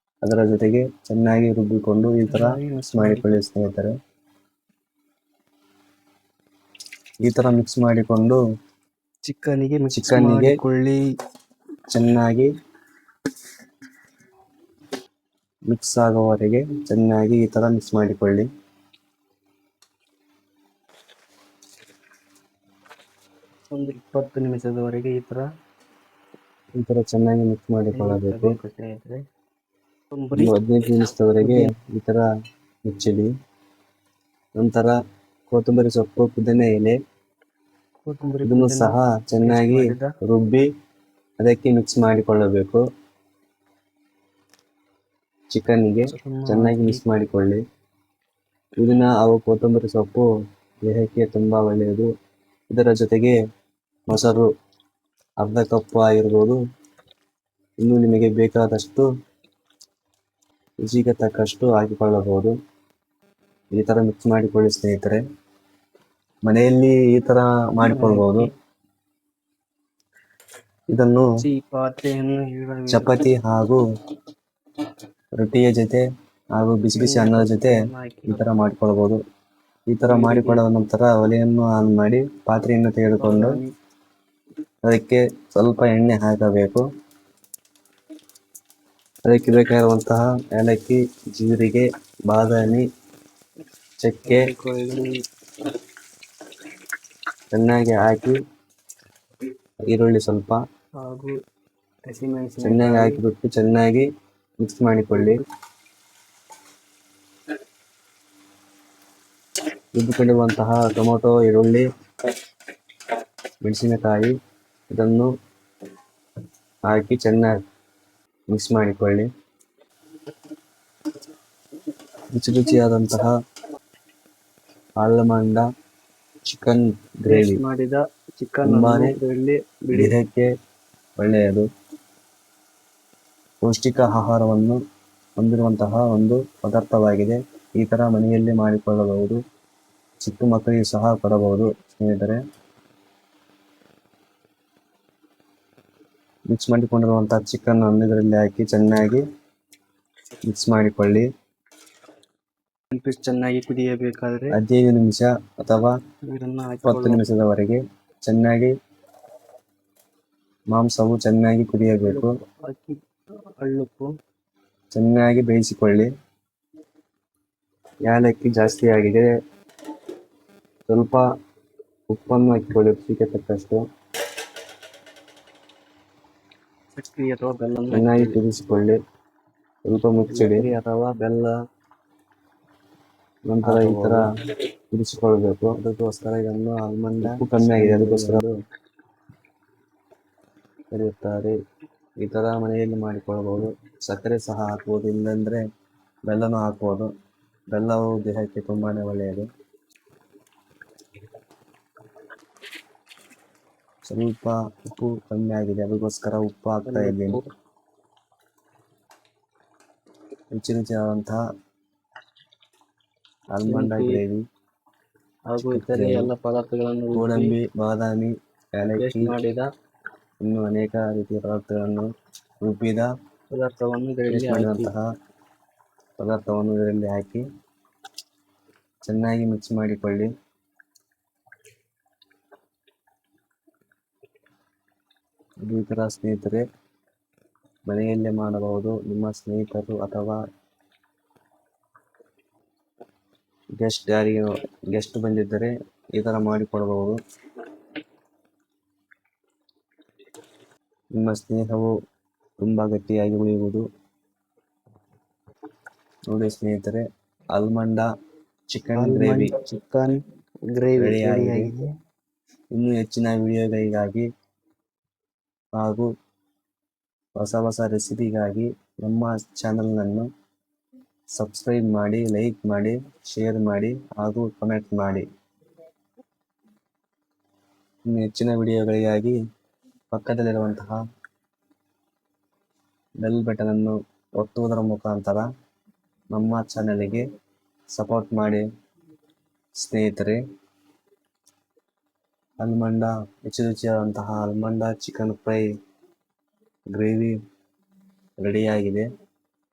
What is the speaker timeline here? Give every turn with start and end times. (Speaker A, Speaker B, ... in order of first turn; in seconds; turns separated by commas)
Speaker A: 0.2-3.9, Speaker B: 2.3-3.4, Speaker A: 7.2-8.4, Speaker B: 9.2-11.0, Speaker A: 9.9-10.6, Speaker A: 11.9-12.5, Speaker A: 15.7-18.4, Speaker B: 23.7-25.4, Speaker A: 26.8-28.5, Speaker B: 27.9-29.2, Speaker B: 30.1-30.5, Speaker A: 30.4-32.3, Speaker B: 31.4-31.7, Speaker A: 32.9-33.3, Speaker A: 34.6-34.9, Speaker A: 35.5-37.0, Speaker B: 38.0-40.1, Speaker A: 38.4-40.6, Speaker A: 41.4-42.8, Speaker A: 45.5-47.6, Speaker B: 46.1-47.0, Speaker A: 48.8-50.3, Speaker A: 50.8-52.1, Speaker A: 52.7-53.4, Speaker A: 54.1-54.5, Speaker A: 55.4-56.6, Speaker A: 57.8-59.1, Speaker A: 60.8-62.5, Speaker A: 63.8-65.2, Speaker A: 66.5-68.5, Speaker B: 67.8-68.5, Speaker A: 70.9-71.2, Speaker B: 71.4-73.2, Speaker A: 72.9-73.8, Speaker A: 75.4-76.0, Speaker A: 76.6-79.2, Speaker B: 76.9-78.5, Speaker A: 79.9-83.6, Speaker B: 80.1-80.6, Speaker B: 83.2-83.7, Speaker A: 84.9-86.8, Speaker A: 89.2-92.8, Speaker A: 94.0-94.4, Speaker B: 94.2-95.1, Speaker A: 97.5-98.4, Speaker A: 99.9-100.6, Speaker B: 101.0-101.3, Speaker B: 102.1-103.2, Speaker A: 102.6-104.0, Speaker A: 104.6-105.4, Speaker B: 105.1-105.4, Speaker A: 109.9-111.9, Speaker A: 113.6-114.3, Speaker A: 114.9-115.3, Speaker A: 116.9-117.6, Speaker A: 118.5-119.3, Speaker A: 122.3-123.3, Speaker A: 125.0-125.6, Speaker A: 126.5-127.6, Speaker B: 127.3-130.1, Speaker A: 128.6-129.1, Speaker A: 129.9-130.5, Speaker A: 131.2-131.6, Speaker A: 133.6-134.8, Speaker A: 135.4-139.4, Speaker A: 140.2-142.4, Speaker A: 146.5-149.2, Speaker A: 150.5-151.3, Speaker B: 152.9-154.6, Speaker A: 154.5-155.9, Speaker B: 156.3-157.2, Speaker A: 156.8-158.7, Speaker A: 160.7-162.3, Speaker B: 162.0-163.0, Speaker B: 163.6-164.1, Speaker A: 164.9-166.1, Speaker A: 168.0-169.3, Speaker A: 170.9-171.2, Speaker A: 172.1-173.8, Speaker B: 176.9-178.4, Speaker A: 177.9-179.0, Speaker A: 179.9-180.7, Speaker B: 180.3-181.5, Speaker A: 183.5-184.2, Speaker B: 183.6-184.2, Speaker A: 184.9-188.5, Speaker B: 187.1-188.4, Speaker A: 190.9-191.5, Speaker A: 192.2-195.6, Speaker A: 196.3-197.1, Speaker A: 197.7-199.5, Speaker A: 204.1-207.4, Speaker B: 206.8-207.5, Speaker A: 210.5-211.4, Speaker A: 213.5-214.4, Speaker B: 213.6-214.2, Speaker B: 215.5-217.5, Speaker A: 215.6-216.3, Speaker A: 217.1-219.3, Speaker B: 219.0-219.7, Speaker A: 220.4-222.1, Speaker A: 222.6-223.1, Speaker B: 223.5-224.9, Speaker A: 224.3-225.1, Speaker A: 226.2-227.4, Speaker A: 229.0-230.3, Speaker A: 235.7-236.6, Speaker A: 237.9-240.4, Speaker A: 243.8-247.2, Speaker A: 251.2-251.9, Speaker A: 252.6-253.8, Speaker A: 256.3-257.0, Speaker A: 257.5-258.1, Speaker A: 258.7-259.5, Speaker B: 258.9-260.2, Speaker B: 260.7-261.9, Speaker A: 261.0-261.7, Speaker A: 262.7-264.3, Speaker A: 265.8-266.1, Speaker A: 267.4-270.3, Speaker A: 271.4-275.2, Speaker A: 278.1-279.4, Speaker A: 280.1-281.0, Speaker A: 283.2-285.4, Speaker A: 286.3-287.2, Speaker A: 287.9-288.7, Speaker A: 289.8-290.4, Speaker A: 292.6-295.7, Speaker A: 296.9-297.3, Speaker A: 298.4-299.1